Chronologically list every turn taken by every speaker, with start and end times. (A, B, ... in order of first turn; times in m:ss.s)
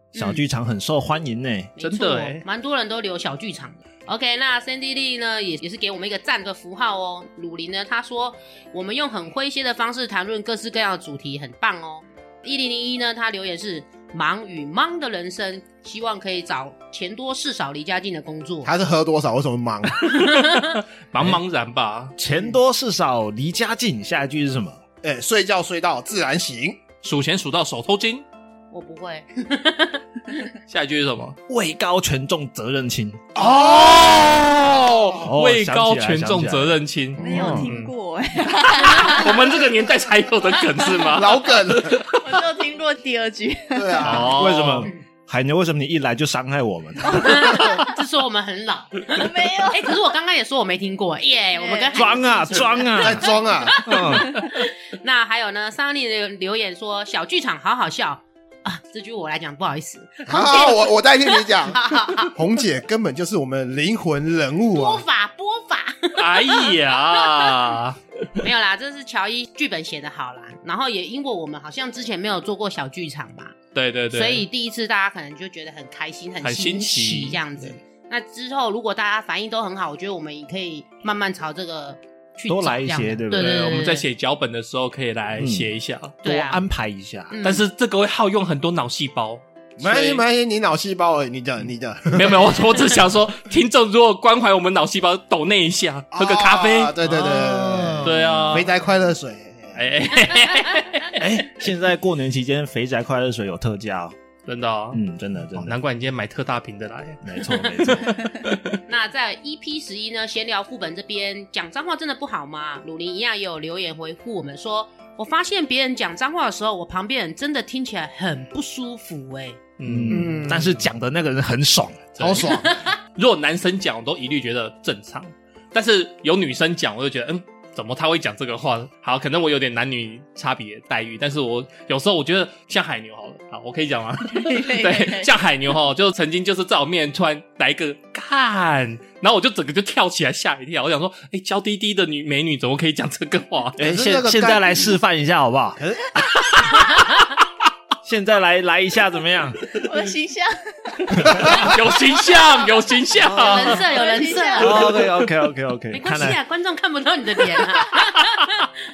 0:00.1-0:00.4 A
0:00.2-0:01.7 B
0:01.8-0:18.7 A
0:01.8-0:02.4 C
0:18.6-0:20.2 D
0:20.0-0:20.8 A
0:20.6-0:22.1 C
0:22.2-0:24.8 B
0:22.3-0:22.6 D
0:25.0-0:26.8 D
0:27.0-0:28.2 C
0:28.7-0:30.3 A
0:30.7-0:31.4 C
0:31.5-0:33.3 B
0:33.3-0:35.1 D
0:33.4-0:37.9 C
0:35.2-0:37.7 B
0:37.2-0:39.4 E
0:38.4-0:42.3 C
0:41.0-0:42.0 D
0:42.2-0:44.0 E
0:43.7-0:44.4 D
0:44.0-0:44.9 C
0:44.3-0:47.6 B
0:47.1-0:47.9 E
0:47.2-1:02.3 A
0:49.1-0:50.0 E
0:51.5-0:52.7 E
0:51.9-0:53.3 B
0:53.0-0:53.8 D
0:53.8-0:54.3 B
1:00.2-1:05.0 D
1:04.7-1:07.7 A
1:06.2-1:08.0 C
1:08.4-1:13.6 A
1:13.7-1:14.4 C
1:14.1-1:24.0 A
1:16.4-1:17.7 C
1:22.5-1:23.8 B
1:23.3-1:26.2 C
1:25.4-1:25.7 B
1:26.2-1:26.6 A
1:26.2-1:27.3 B
1:27.3-1:27.6 A
1:27.4-1:30.2 C
1:29.8-1:32.6 D
1:32.1-1:38.7 C
1:36.1-1:39.8 D
1:37.2-1:38.6 B
1:39.7-1:41.2 C
1:41.2-1:44.1 B
1:44.4-1:45.0 C
1:44.9-1:45.8 B
1:45.5-1:48.8 C
1:47.2-1:48.3 B
1:48.9-1:59.6 A
1:59.8-2:00.8 C
1:59.8-2:02.1 B
2:00.1-2:00.7 D
2:02.2-2:02.8 D
2:02.2-2:23.8 C
2:02.5-2:02.9 A
2:14.3-2:15.3 E
2:23.8-2:25.8 B
2:23.8-2:24.9 D
2:25.8-2:26.0 D
2:28.0-2:29.7 B
2:29.7-2:31.3 E
2:31.2-2:33.8 C
2:33.2-2:34.9 A
2:33.4-2:34.8 E
2:34.6-2:36.4 B
2:35.9-2:38.7 A